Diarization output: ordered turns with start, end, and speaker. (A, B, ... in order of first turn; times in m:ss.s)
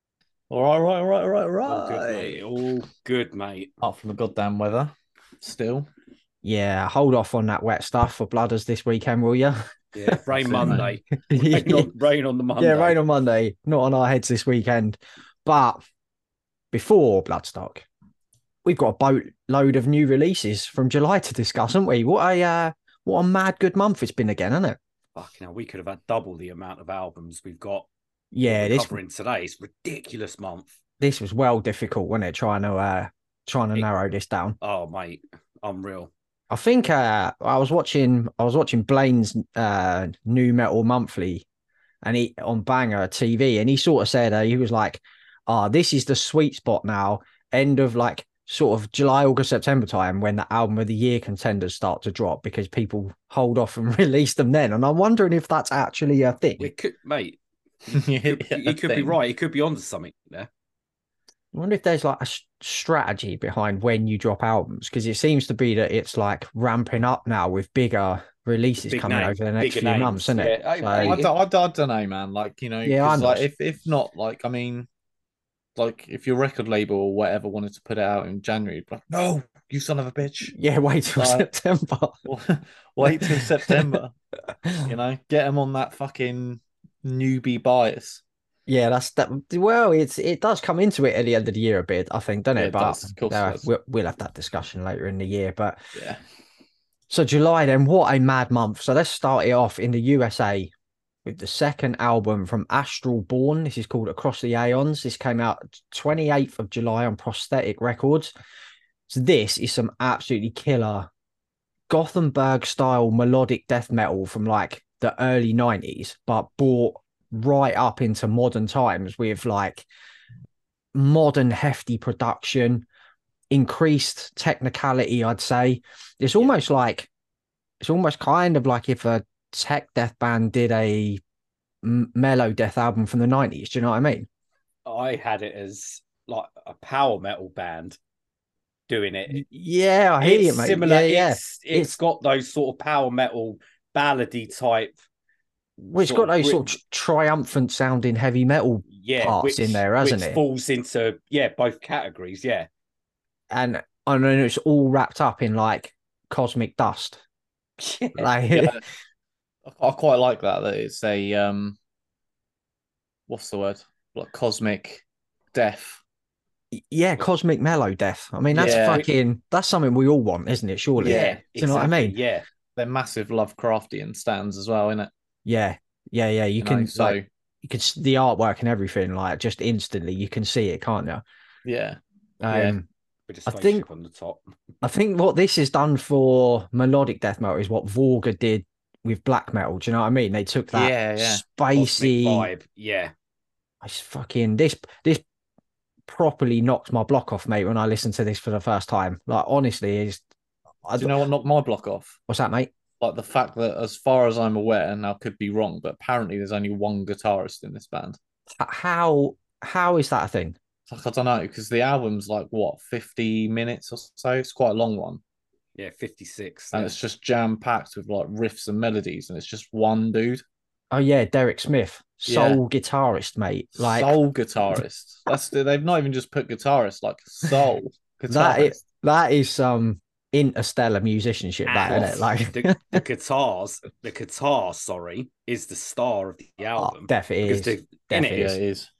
0:00.5-0:02.4 A
0:01.6-0:03.7 B
0:03.8-0:05.9 A
0:06.4-0:11.9 C
0:09.9-0:13.0 B
0:10.5-0:10.9 A
0:12.6-0:15.8 C
0:16.7-0:17.8 C
0:18.6-0:24.8 C
0:25.1-0:27.9 B
0:28.3-0:29.0 C
0:28.4-0:30.7 B
0:31.0-0:34.6 C
0:34.6-0:36.1 B
0:36.5-0:41.4 C
0:42.0-0:56.7 C
0:56.6-1:00.5 B
0:57.9-0:59.2 A
1:01.5-1:11.2 C
1:08.9-1:11.3 B
1:11.0-1:14.9 A
1:12.8-1:13.5 C
1:15.8-1:20.5 A
1:20.5-1:22.2 C
1:21.2-1:21.5 A
1:22.2-1:24.1 A
1:23.0-1:23.8 C
1:24.6-1:24.9 C
1:24.8-1:28.2 A
1:28.7-1:35.8 C
1:32.6-1:33.7 A
1:35.9-1:36.2 A
1:37.1-1:40.7 C
1:41.2-1:48.3 C
1:49.1-1:51.1 C
1:51.9-1:59.9 C
2:00.9-2:02.8 C
2:03.5-2:07.1 C
2:07.8-2:11.2 C
2:11.8-2:14.3 C
2:14.8-2:18.0 B
2:18.9-2:19.4 B
2:19.3-2:21.9 C
2:20.2-2:25.0 B
2:25.8-2:30.4 C
2:26.0-2:26.7 B
2:28.9-2:32.7 B
2:33.5-2:37.2 C
2:37.8-2:38.3 B
2:38.2-2:38.8 C
2:38.5-2:38.8 A
2:39.6-2:41.8 A
2:43.3-2:46.0 A
2:46.7-2:52.2 C
2:48.5-2:49.0 A
2:48.5-2:49.1 B
2:51.0-2:51.4 A
2:51.0-2:52.4 B
2:52.8-2:55.1 A
2:55.4-3:01.2 C
2:56.6-2:57.2 A
3:01.6-3:02.0 A
3:02.4-3:02.8 C
3:02.5-3:02.8 A
3:03.3-3:04.4 B
3:03.5-3:03.8 C
3:04.8-3:12.5 C
3:10.7-3:11.4 A
3:11.7-3:13.1 B
3:13.8-3:15.2 C
3:16.1-3:20.2 C
3:20.8-3:21.1 C
3:21.0-3:22.2 A
3:22.3-3:22.7 C
3:23.0-3:28.2 A
3:28.6-3:30.6 C
3:30.9-3:35.2 A
3:35.8-3:36.9 B
3:36.7-3:40.4 A
3:40.9-3:44.2 C
3:42.2-3:42.6 A
3:43.8-3:48.8 A
3:48.3-3:53.0 C
3:51.6-3:58.5 B
3:56.8-3:58.6 C
3:58.2-3:58.9 A